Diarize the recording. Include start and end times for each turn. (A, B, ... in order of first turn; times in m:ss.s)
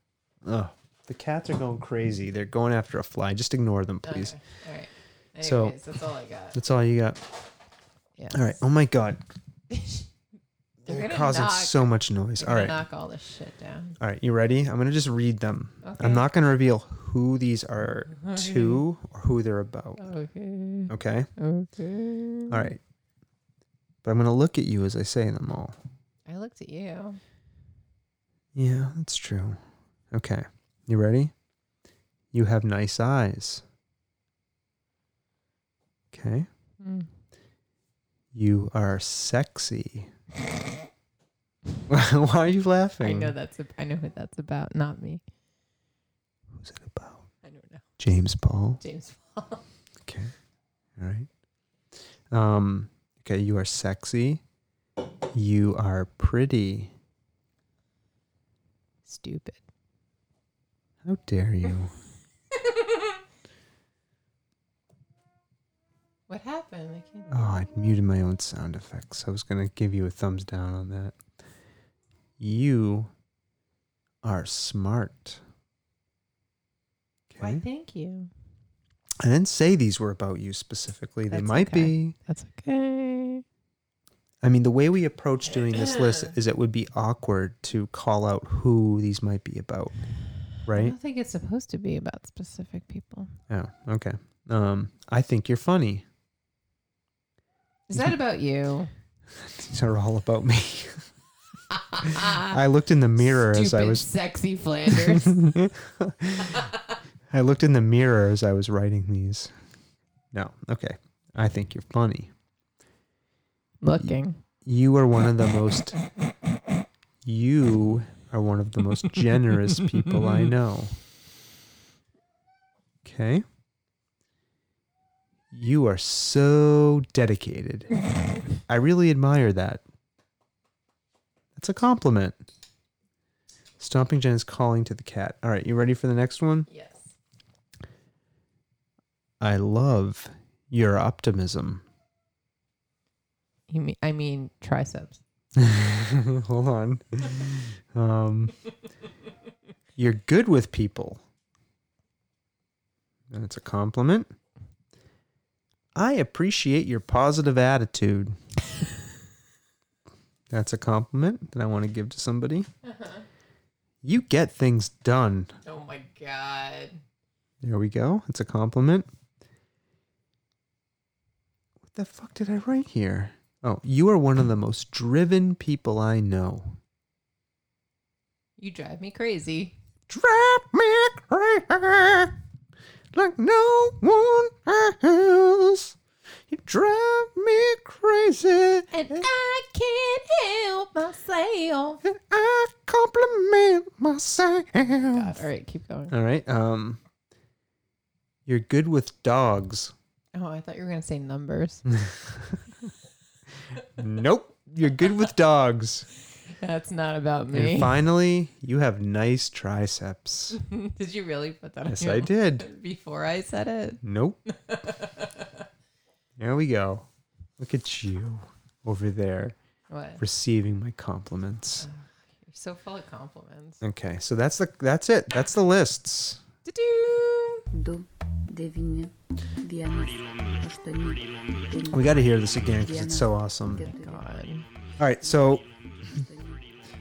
0:00.4-0:04.4 A
0:04.0-0:06.6 B
0:05.4-0:05.8 A
0:06.5-0:07.2 A
0:08.2-0:08.5 B
0:08.3-0:09.2 A
0:09.7-0:10.1 B
0:10.8-0:11.8 B
0:10.8-0:12.8 A
0:12.4-0:14.0 B
0:14.0-0:20.0 A
0:15.8-0:16.3 B
0:18.1-0:18.8 B
0:20.0-0:22.7 B
0:20.9-0:21.3 A
0:22.5-0:22.8 A
0:24.0-0:25.8 A
0:26.3-0:27.2 B
0:28.5-0:29.6 A
0:30.1-0:31.3 A
0:32.3-0:33.6 A
0:36.1-0:36.5 A
0:36.8-0:37.1 B
0:38.3-0:40.1 A
0:41.9-0:43.3 A
0:43.0-0:45.2 B
0:46.6-0:47.2 A
0:47.4-0:47.8 B
0:48.0-0:48.8 A
0:48.8-0:49.6 B
0:50.0-0:50.3 A
0:51.0-0:51.3 A
0:52.3-0:54.4 A
0:55.3-0:56.9 A
0:59.0-0:59.6 B
1:01.0-1:01.9 A
1:02.6-1:03.1 B
1:06.3-1:07.3 B
1:07.3-1:11.2 A
1:12.4-1:13.1 A
1:14.2-1:15.4 A
1:17.3-1:17.6 A
1:17.4-1:18.3 B
1:19.2-1:22.1 A
1:21.3-1:23.4 B
1:24.4-1:30.0 A
1:25.5-1:26.4 B
1:30.6-1:30.9 A
1:30.7-1:33.3 B
1:33.5-1:36.0 A
1:37.9-1:38.9 B
1:39.4-1:41.0 A
1:41.7-1:42.6 B
1:42.0-1:44.1 A
1:43.2-1:45.4 B
1:44.9-1:46.7 A
1:46.4-1:46.8 B
1:47.3-1:49.5 A
1:50.3-1:52.3 A
1:53.8-1:54.4 B
1:54.6-1:56.0 A
1:57.2-2:01.0 A
1:59.8-2:00.4 B
2:03.0-2:03.4 A
2:05.5-2:07.9 A
2:08.6-2:09.8 A
2:11.6-2:12.4 A
2:13.8-2:16.7 A
2:16.7-2:17.1 B
2:19.4-2:21.8 A
2:23.7-2:25.2 B
2:25.6-2:28.5 A
2:30.0-2:31.2 A
2:33.3-2:34.3 A
2:35.9-2:38.4 A
2:40.5-2:42.7 A
2:42.8-2:43.2 B
2:44.0-2:45.6 A
2:45.6-2:47.0 B
2:47.6-2:49.1 A
2:51.9-2:56.8 A
2:58.6-2:59.8 B
3:00.1-3:02.4 A
3:03.1-3:06.0 A
3:06.5-3:09.3 A
3:08.9-3:12.0 B
3:12.0-3:15.3 A
3:14.9-3:16.1 B
3:16.1-3:17.0 A
3:18.4-3:19.9 A
3:20.3-3:21.8 B
3:21.8-3:22.6 A
3:24.0-3:26.1 A
3:26.5-3:28.0 B
3:27.5-3:30.6 A
3:30.5-3:35.6 B
3:31.9-3:32.6 A
3:34.0-3:34.4 A
3:36.4-3:37.0 A
3:37.6-3:39.6 A
3:39.9-3:40.2 B
3:40.2-3:41.9 A
3:41.8-3:43.8 B
3:43.8-3:46.4 A
3:46.6-3:47.7 B
3:47.7-3:56.7 C
3:51.9-3:53.9 A
3:53.8-3:54.6 B
3:55.0-3:56.2 A